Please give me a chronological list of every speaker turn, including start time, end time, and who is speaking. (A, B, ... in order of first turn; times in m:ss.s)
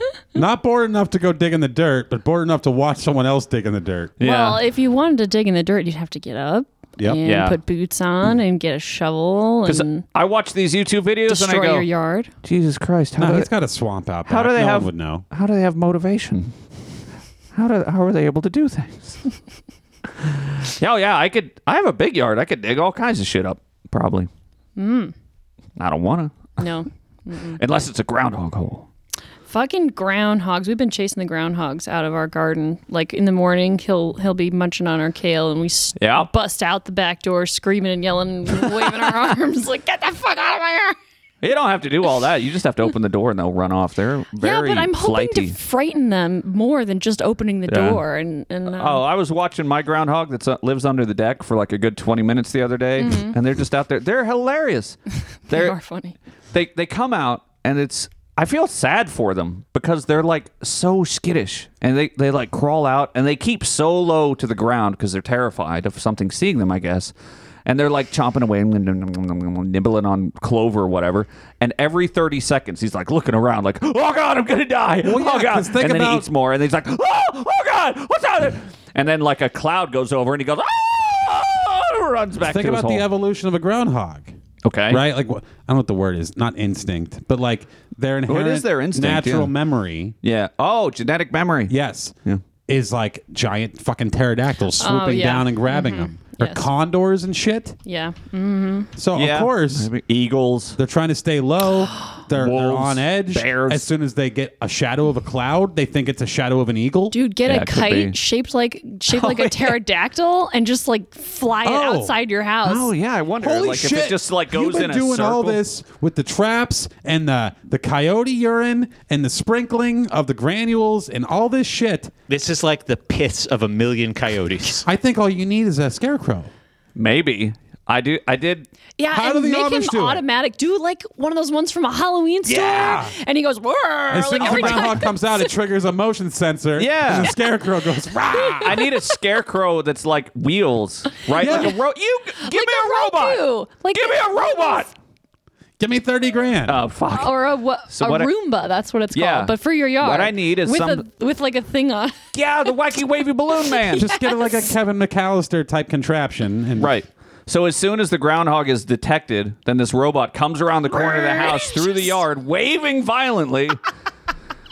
0:00.4-0:04.2 A
0:04.2-0:04.6 B
0:04.2-0:10.0 C
0:07.2-0:07.6 B
0:09.7-0:11.9 B
0:11.3-0:12.3 C
0:12.4-0:13.5 B
0:13.2-0:15.2 A
0:14.3-0:16.5 B
0:17.5-0:19.2 B
0:20.2-0:24.3 B
0:24.8-0:25.1 C
0:25.8-0:26.6 B
0:26.6-0:27.6 C
0:27.6-0:28.9 B
0:29.5-0:41.0 C
0:36.0-0:36.3 B
0:41.4-0:45.6 B
0:44.4-0:49.0 C
0:47.7-0:48.0 B
0:48.7-0:55.8 B
0:53.0-0:53.4 C
0:55.5-0:56.2 C
0:56.5-1:07.1 B
1:07.7-1:23.0 B
1:15.0-1:16.3 A
1:22.4-1:24.3 A
1:24.6-1:25.0 B
1:24.9-1:30.2 A
1:28.3-1:29.5 B
1:30.2-1:31.7 B
1:31.7-1:32.2 A
1:32.7-1:37.8 A
1:34.8-1:36.7 C
1:37.9-1:38.9 C
1:39.0-1:39.9 A
1:39.2-1:40.8 B
1:40.8-1:47.2 A
1:42.3-1:43.9 B
1:47.1-1:52.9 C
1:47.5-1:48.2 B
1:49.1-1:49.8 B
1:51.6-1:52.2 A
1:52.6-1:55.6 B
1:53.4-2:02.1 A
2:02.3-2:04.8 D
2:04.8-2:06.5 A
2:07.0-2:08.7 B
2:09.0-2:15.5 C
2:09.1-2:10.2 A
2:12.5-2:13.1 A
2:14.1-2:18.8 A
2:14.4-2:15.0 B
2:16.8-2:17.3 B
2:18.3-2:19.0 C
2:18.6-2:24.9 B
2:21.3-2:21.7 C
2:21.4-2:21.8 A
2:22.4-2:24.9 C
2:25.8-2:26.8 A
2:26.7-2:28.3 B
2:27.1-2:32.2 C
2:29.1-2:31.0 B
2:32.3-2:34.1 B
2:34.0-2:34.7 C
2:34.0-2:36.9 A
2:36.8-2:43.8 B
2:40.9-2:42.2 C